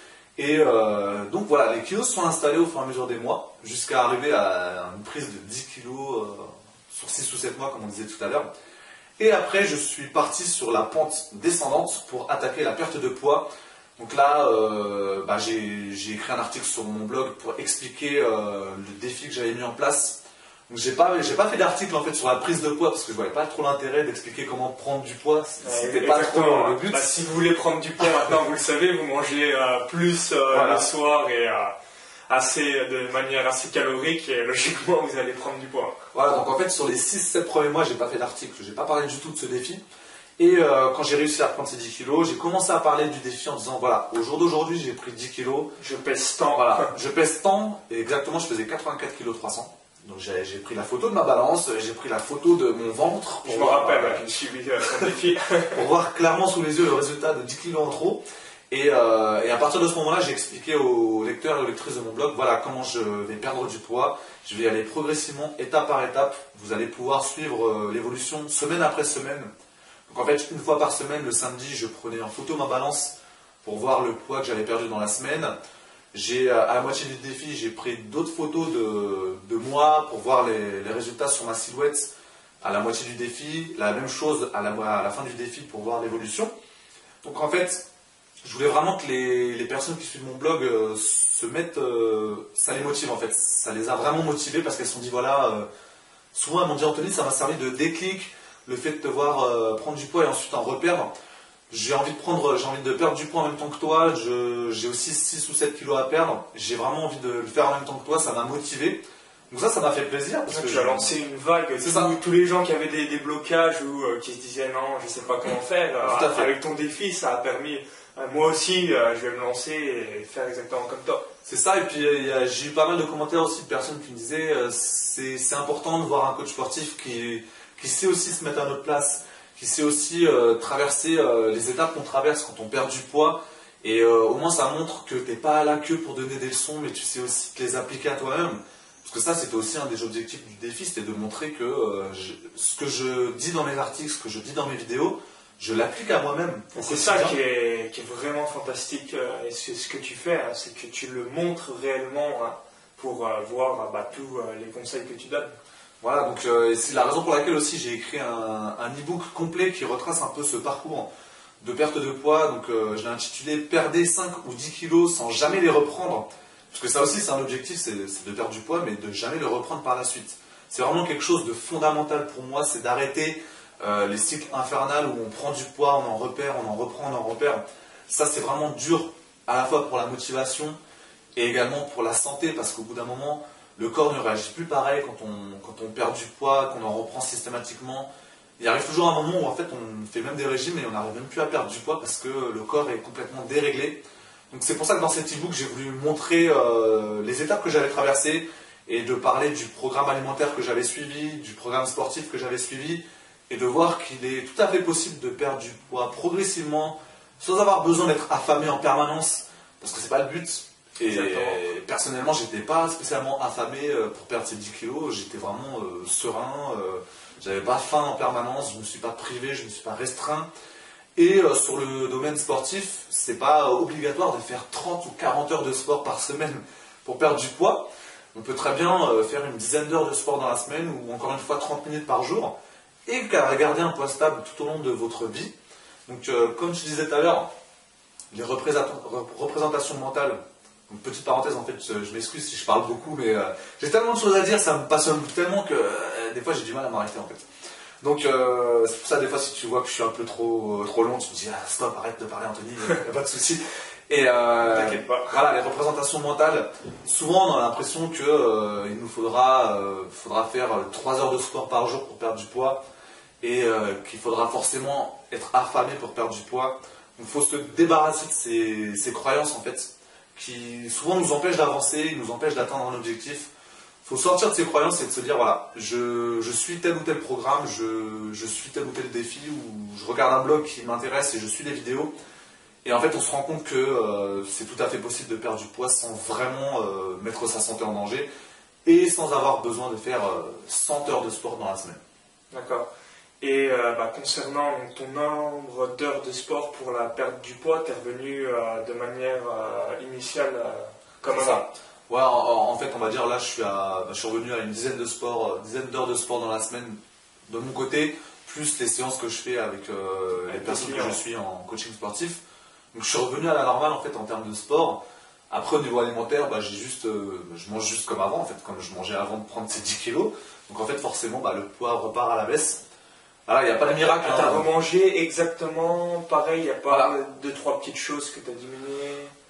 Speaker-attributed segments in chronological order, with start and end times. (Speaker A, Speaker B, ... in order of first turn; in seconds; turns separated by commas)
Speaker A: 0.4-8.5, Speaker A: 9.2-27.1, Speaker B: 25.6-31.7, Speaker A: 30.5-30.9, Speaker B: 32.3-36.1, Speaker A: 36.1-39.8, Speaker A: 40.4-45.7, Speaker B: 45.8-46.9, Speaker A: 46.5-54.2, Speaker B: 53.5-55.8, Speaker A: 55.7-69.5, Speaker A: 70.1-75.5, Speaker A: 76.1-82.1, Speaker A: 82.6-86.5, Speaker A: 87.2-87.8, Speaker A: 88.4-95.7, Speaker A: 96.3-101.1, Speaker A: 101.7-111.1, Speaker B: 110.5-121.2, Speaker A: 111.8-112.1, Speaker A: 116.0-116.5, Speaker A: 121.5-147.4, Speaker B: 146.7-155.5, Speaker A: 156.0-161.1, Speaker A: 161.6-180.8, Speaker A: 181.4-220.5, Speaker B: 211.0-211.6, Speaker A: 221.2-232.6, Speaker A: 233.1-235.5, Speaker A: 236.1-237.5, Speaker A: 238.3-240.4, Speaker A: 240.9-247.4, Speaker A: 248.0-262.8, Speaker B: 254.6-255.4, Speaker A: 263.4-273.5, Speaker A: 274.0-282.1, Speaker A: 282.9-288.3, Speaker A: 288.9-292.0, Speaker B: 292.5-292.9, Speaker B: 293.4-301.7, Speaker A: 301.3-312.4, Speaker B: 310.4-311.2, Speaker A: 312.9-322.8, Speaker A: 323.5-324.7, Speaker B: 324.2-329.3, Speaker A: 326.9-327.1